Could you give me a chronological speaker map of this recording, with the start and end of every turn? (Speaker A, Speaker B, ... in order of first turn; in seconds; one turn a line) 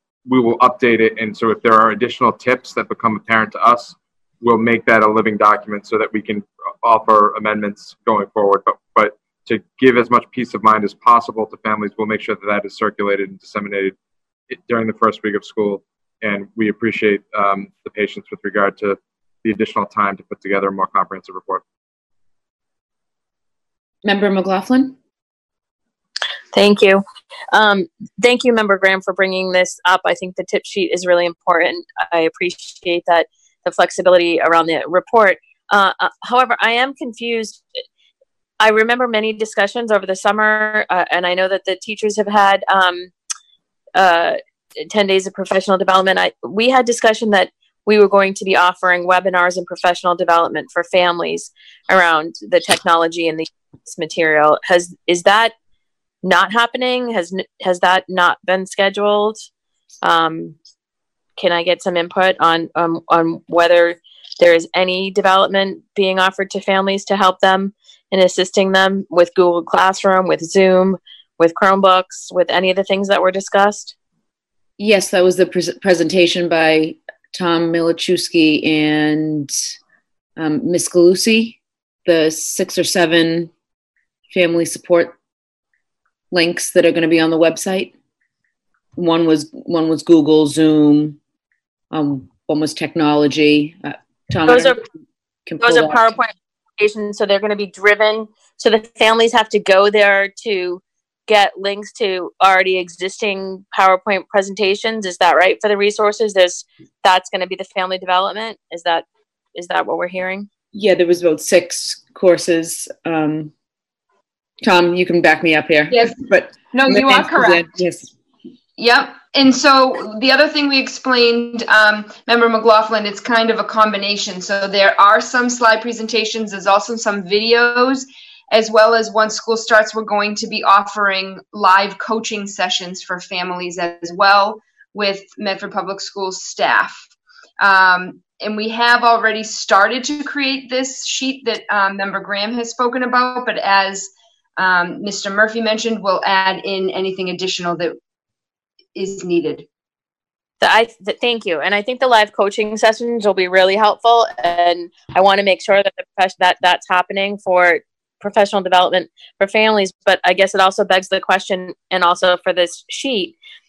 Speaker A: 0.3-14.0
Speaker A: 14.5-21.6
Speaker B: 24.0-25.0
Speaker C: 26.5-37.6
Speaker C: 38.6-43.1
Speaker C: 44.0-55.5
Speaker C: 56.2-59.4
Speaker C: 60.0-60.6
Speaker C: 61.4-73.9
Speaker B: 74.8-79.5
Speaker B: 80.4-83.5
Speaker B: 84.3-85.2
Speaker B: 86.3-87.9
Speaker B: 89.0-91.2
Speaker B: 91.9-94.8
Speaker C: 94.5-94.8
Speaker B: 95.5-96.1
Speaker C: 95.6-110.5
Speaker B: 110.7-113.5
Speaker B: 114.6-118.1
Speaker D: 115.9-117.7
Speaker D: 118.8-137.1
Speaker D: 137.6-148.0
Speaker D: 148.9-149.7
Speaker C: 150.6-163.3